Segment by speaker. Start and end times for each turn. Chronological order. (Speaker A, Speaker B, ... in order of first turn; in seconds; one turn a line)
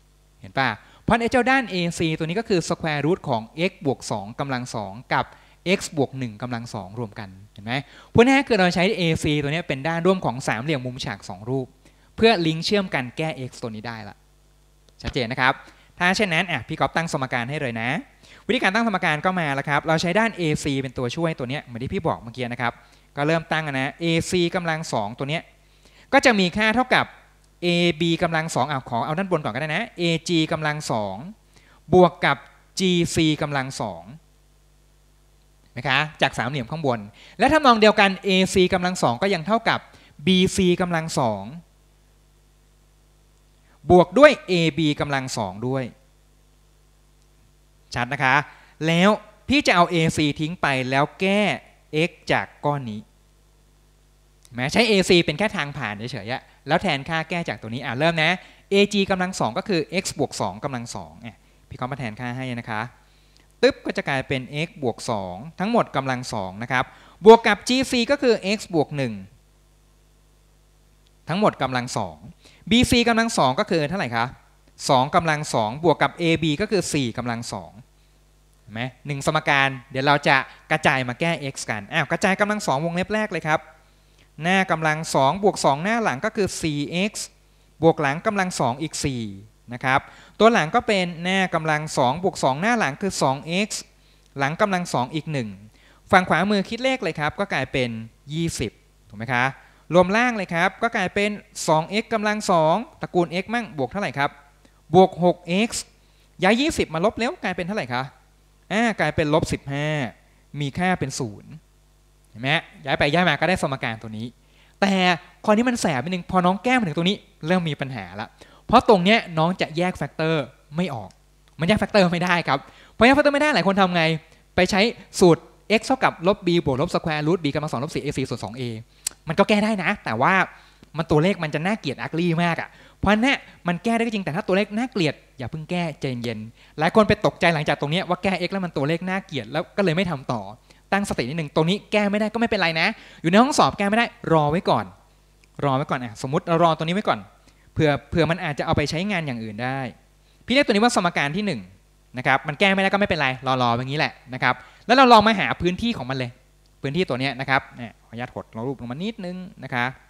Speaker A: 0.4-14.2
Speaker A: 15.0-25.4
Speaker A: 26.1-27.1
Speaker A: 27.6-31.3
Speaker A: 31.9-34.2
Speaker A: 35.8-41.6
Speaker A: 43.8-45.9
Speaker A: 47.9-53.0
Speaker A: 54.5-62.9
Speaker A: 63.6-69.3
Speaker A: 71.3-77.8
Speaker A: 78.7-83.6
Speaker A: 84.4-93.8
Speaker A: 94.4-104.3
Speaker A: 104.9-105.9
Speaker A: 106.4-108.1
Speaker A: 108.7-111.6
Speaker A: 112.3-144.9
Speaker A: 145.6-149.9
Speaker A: 150.5-159.9